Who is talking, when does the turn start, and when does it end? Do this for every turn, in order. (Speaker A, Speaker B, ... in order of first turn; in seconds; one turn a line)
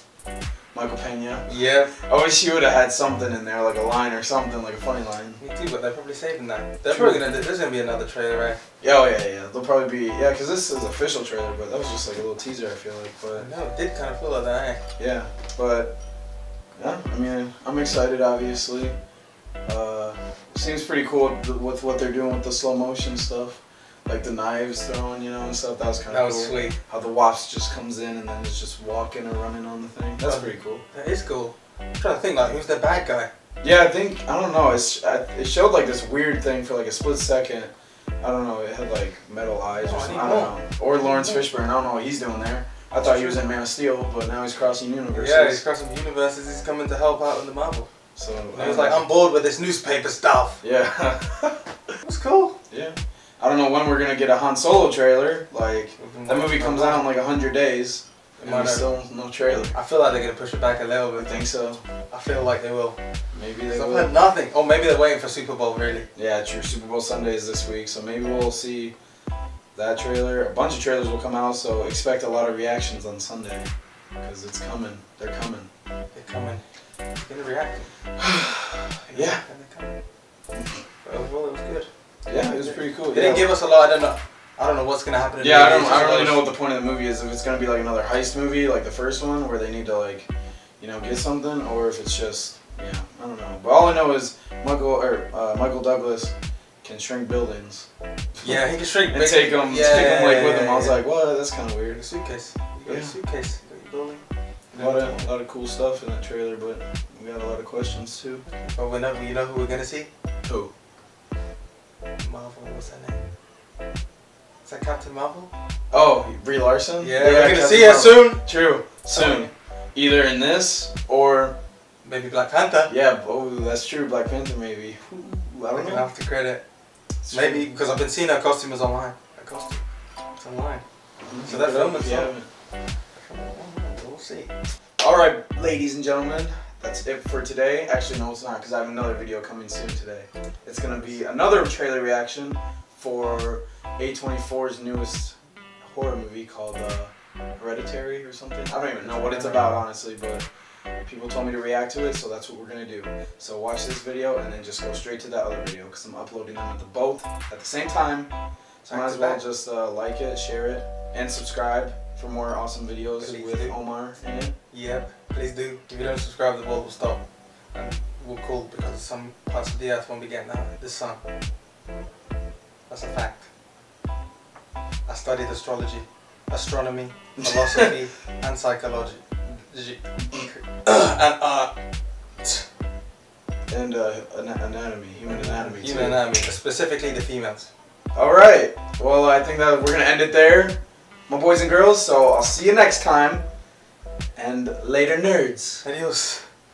Speaker A: 0.7-1.5
Speaker B: 1.5-1.9
Speaker A: 2.0-5.4
Speaker B: 5.4-8.6
Speaker A: 6.9-7.2
Speaker A: 8.8-13.5
Speaker B: 13.3-14.8
Speaker A: 15.0-15.9
Speaker A: 16.8-19.0
Speaker A: 19.6-30.8
Speaker B: 26.1-26.8
Speaker B: 30.2-33.3
Speaker A: 33.6-45.6
Speaker B: 39.8-41.4
Speaker B: 42.9-43.5
Speaker B: 45.1-47.9
Speaker A: 48.2-49.0
Speaker B: 48.5-50.6
Speaker A: 50.6-51.6
Speaker B: 52.0-52.6
Speaker A: 52.7-59.8
Speaker B: 56.0-57.1
Speaker B: 58.4-59.1
Speaker B: 59.7-61.5
Speaker A: 61.1-61.8
Speaker B: 62.1-63.0
Speaker A: 63.3-64.1
Speaker B: 63.7-66.1
Speaker A: 66.2-69.0
Speaker A: 69.8-73.7
Speaker A: 74.2-75.7
Speaker B: 76.1-76.6
Speaker B: 77.2-77.9
Speaker A: 78.2-79.4
Speaker B: 79.1-80.0
Speaker B: 81.0-86.5
Speaker A: 82.3-83.5
Speaker A: 85.4-97.9
Speaker B: 98.4-101.0
Speaker A: 99.1-102.0
Speaker B: 101.9-105.3
Speaker A: 102.9-103.2
Speaker A: 104.7-108.5
Speaker B: 108.5-110.1
Speaker A: 110.5-110.7
Speaker B: 112.2-113.3
Speaker B: 114.6-115.5
Speaker A: 115.9-121.6
Speaker B: 117.0-119.5
Speaker B: 122.0-122.9
Speaker A: 122.9-126.1
Speaker B: 125.7-126.7
Speaker A: 127.2-127.7
Speaker B: 127.3-129.8
Speaker B: 130.4-130.8
Speaker A: 131.2-132.5
Speaker B: 131.4-132.4
Speaker B: 133.2-134.5
Speaker A: 135.0-150.5
Speaker B: 140.9-141.2
Speaker B: 149.0-149.8
Speaker A: 151.0-158.3
Speaker A: 158.8-164.5
Speaker B: 158.9-159.4
Speaker B: 163.2-163.8
Speaker B: 164.7-171.2
Speaker B: 172.9-173.5
Speaker B: 175.1-181.8
Speaker A: 177.4-177.9
Speaker A: 183.7-186.2
Speaker B: 185.3-187.7
Speaker A: 188.1-193.5
Speaker A: 194.3-195.8
Speaker B: 195.8-196.5